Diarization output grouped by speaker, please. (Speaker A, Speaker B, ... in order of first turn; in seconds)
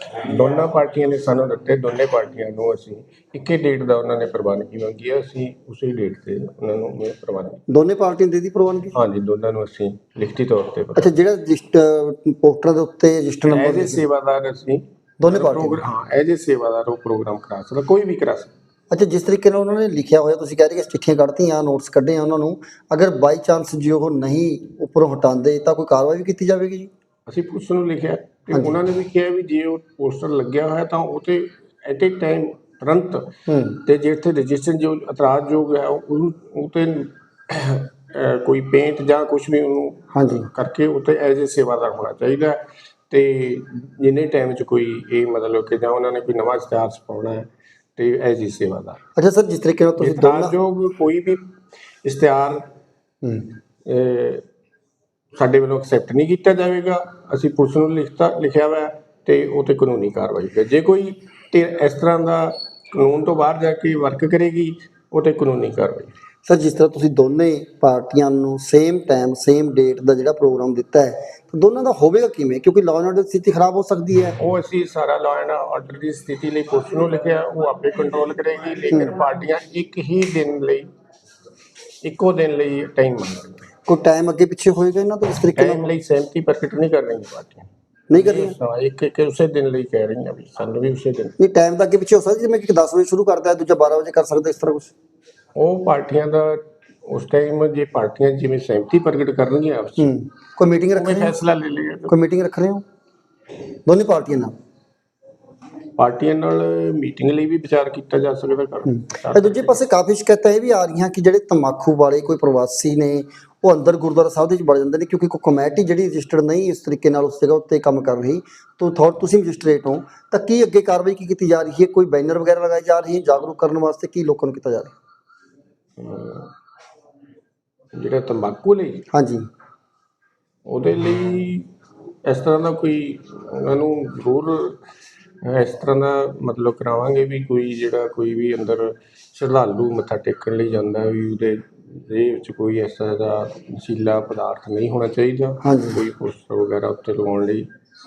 Speaker A: 0.3-7.6, 8.9-11.1, 13.5-18.5, 27.3-33.3, 33.8-49.0, 50.0-51.4, 52.0-52.6, 53.9-54.4, 55.4-66.1, 74.4-80.8, 82.0-83.7, 85.5-91.3, 95.5-100.1, 100.9-102.1, 106.0-109.8, 126.0-126.5, 128.0-129.1, 130.7-131.7, 132.2-134.8, 135.4-147.7
Speaker B: 7.7-8.9, 10.9-14.0, 15.2-15.8, 18.9-26.9, 28.5-28.8, 33.5-33.8, 40.1-40.5, 49.2-50.5, 53.2-53.6, 66.4-74.4, 83.9-85.9, 88.1-88.5, 91.4-94.9, 100.0-101.3, 102.1-102.8, 103.8-104.5, 108.9-124.9, 129.1-129.4, 145.6-146.0